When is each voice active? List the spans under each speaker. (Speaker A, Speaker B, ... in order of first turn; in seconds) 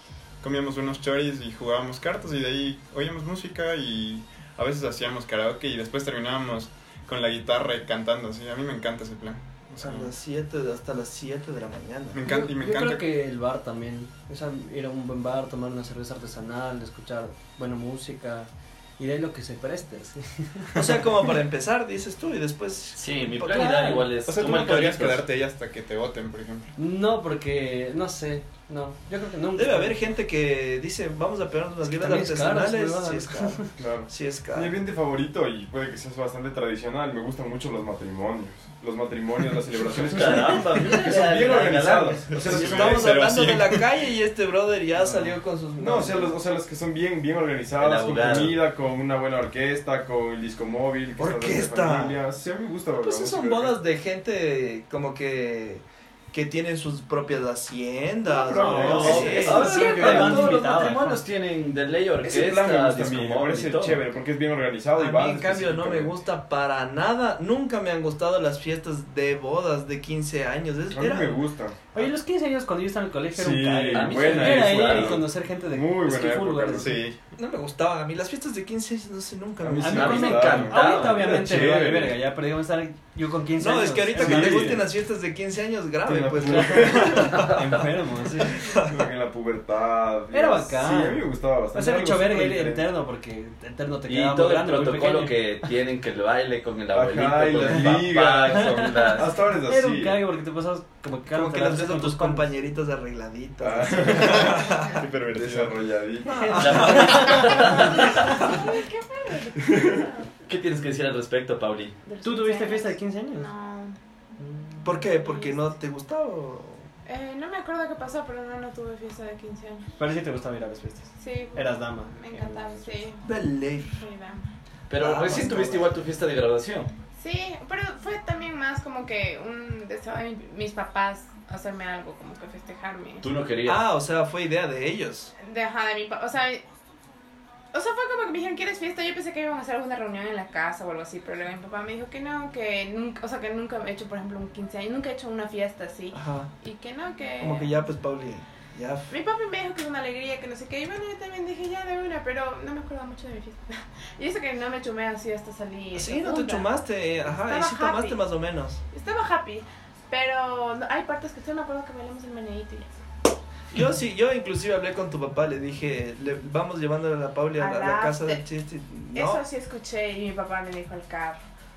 Speaker A: 0.4-10.1, 12.1-13.1, 24.2-26.7, 42.4-43.9, 76.8-77.2, 104.1-105.8
Speaker B: 9.8-12.2, 20.8-24.1, 29.6-34.8, 42.5-46.4, 51.2-52.2, 53.0-60.2, 65.0-71.4, 77.3-80.6, 83.6-87.6, 88.4-89.0, 101.3-105.0, 106.5-107.5, 114.8-116.9, 123.2-124.0, 125.0-125.9, 133.7-135.3, 146.1-146.5, 147.4-149.1, 155.9-158.8, 163.7-169.4
Speaker C: 12.2-21.1, 26.8-30.0, 31.8-33.7, 42.5-42.8, 58.6-61.2, 71.9-77.0, 79.8-84.8, 86.5-88.7, 90.3-95.3, 98.5-102.5, 106.3-108.3, 112.2-113.5, 114.4-115.0, 120.0-123.0
Speaker D: 23.0-25.2, 40.0-42.4, 47.8-48.6, 58.6-64.0, 73.9-75.2, 79.9-81.3, 94.1-99.3, 106.5-108.5, 110.5-112.0, 124.9-126.9, 133.2-133.8
Speaker E: 33.8-43.2, 45.0-53.8, 58.3-60.6, 62.2-66.2, 70.9-71.8, 73.3-77.0, 79.6-82.2, 84.1-84.9, 86.0-87.3, 88.8-92.9, 96.9-100.2, 103.6-107.0
Speaker F: 107.1-110.3, 112.1-114.0, 115.0-115.6, 117.1-119.8, 121.2-123.3, 123.9-124.5, 127.2-133.2, 135.4-136.6, 137.7-147.8, 149.1-158.2, 158.9-162.9, 167.6-168.4, 169.1-171.4